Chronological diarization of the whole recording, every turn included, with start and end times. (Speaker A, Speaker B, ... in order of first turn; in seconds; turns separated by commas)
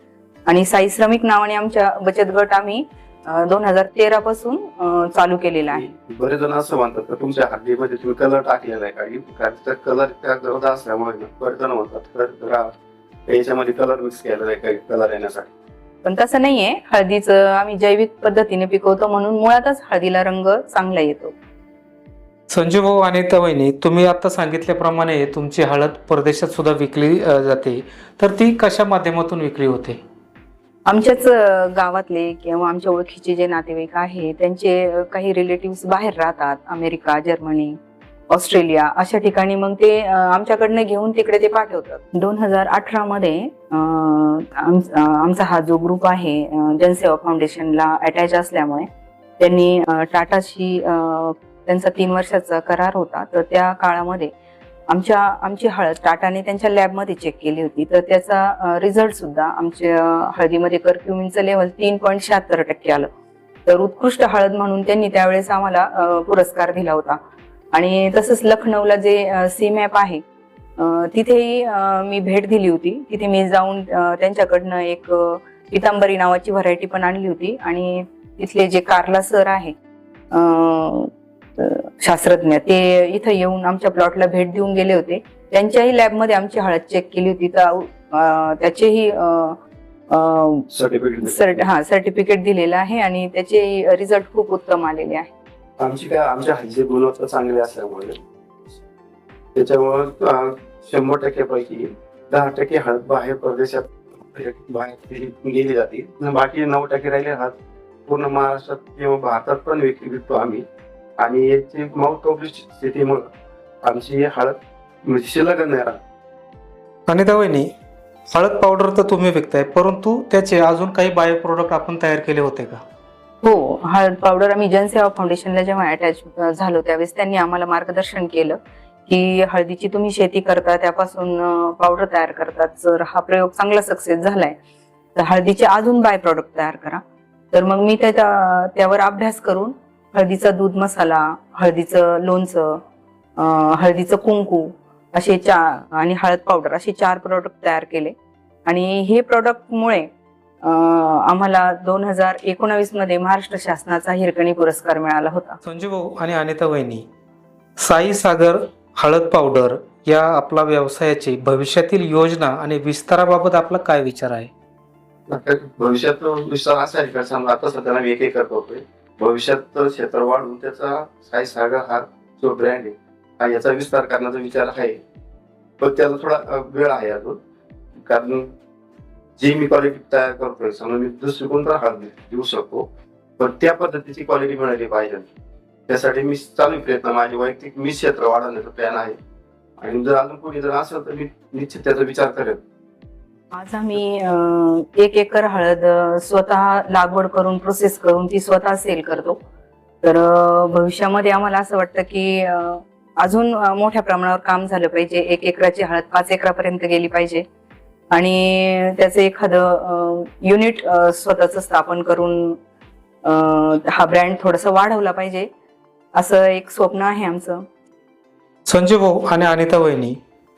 Speaker A: 0.5-5.8, Speaker B: 5.7-12.7, Speaker B: 13.3-15.5, Speaker A: 16.0-21.3, Speaker C: 22.5-30.0, Speaker A: 30.9-37.8, Speaker A: 38.3-48.9, Speaker A: 49.4-54.3, Speaker A: 54.9-63.1, Speaker A: 63.6-67.2, Speaker A: 67.7-70.2, Speaker A: 70.8-79.7, Speaker A: 80.3-89.6, Speaker A: 90.1-90.7, Speaker B: 90.7-91.7, Speaker A: 91.2-95.3, Speaker B: 95.8-98.2, Speaker B: 99.5-107.5, Speaker B: 108.1-110.6, Speaker B: 111.2-113.2, Speaker B: 113.8-116.0, Speaker C: 117.1-117.7, Speaker C: 118.3-122.8, Speaker A: 123.4-134.6, Speaker A: 135.1-142.8, Speaker A: 143.4-148.1, Speaker A: 148.7-150.1, Speaker A: 150.6-155.6, Speaker C: 155.6-157.1, Speaker C: 157.8-164.5, Speaker B: 165.3-175.0, Speaker B: 175.8-177.4, Speaker B: 178.0-178.5, Speaker B: 179.4-182.9, Speaker B: 183.4-185.3, Speaker B: 185.9-189.2, Speaker B: 189.8-192.6, Speaker A: 193.5-199.4, Speaker A: 200.0-207.4, Speaker A: 208.1-212.6, Speaker A: 213.2-215.5, Speaker A: 216.1-217.6, Speaker C: 218.7-220.2